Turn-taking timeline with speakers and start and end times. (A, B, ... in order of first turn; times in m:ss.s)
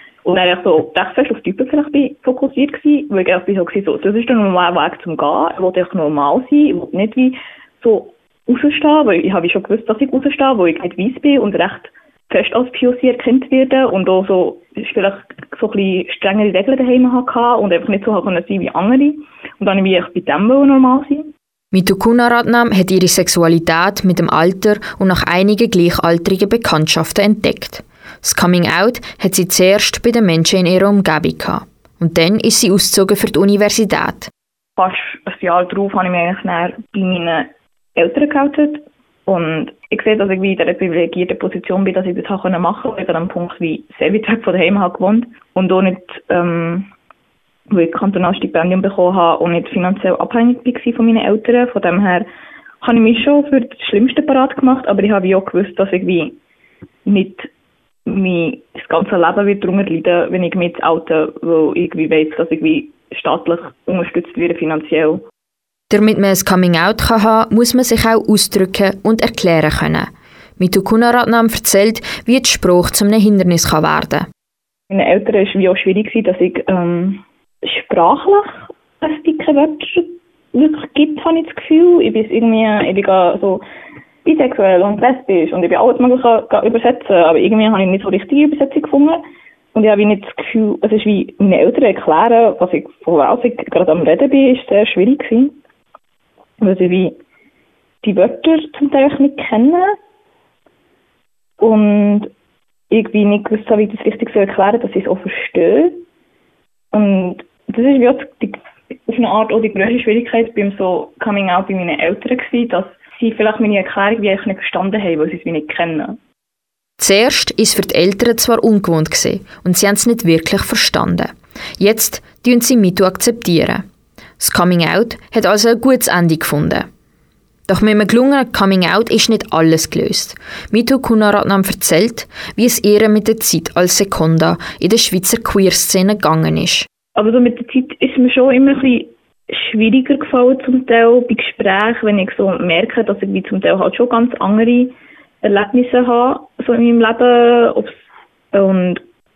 0:00.2-0:21.3 A
0:21.7-0:34.3 B
0:34.8-0:46.9 A
0:47.7-0:52.3 A
0:52.8-0:56.4 A
0:57.1-0:57.5 A
0:58.1-1:05.2 A
1:05.9-1:14.3 B
1:14.9-1:23.6 A
1:24.2-1:29.2 A
1:29.7-1:35.6 A
1:36.6-1:37.2 A
1:38.0-1:40.0 A
1:41.6-1:42.3 A
1:42.9-1:46.0 A
1:46.9-1:56.2 A
1:57.0-2:03.8 B
2:04.4-2:06.9 B
2:07.7-2:16.9 B
2:17.2-2:28.0 A
2:28.5-2:29.0 A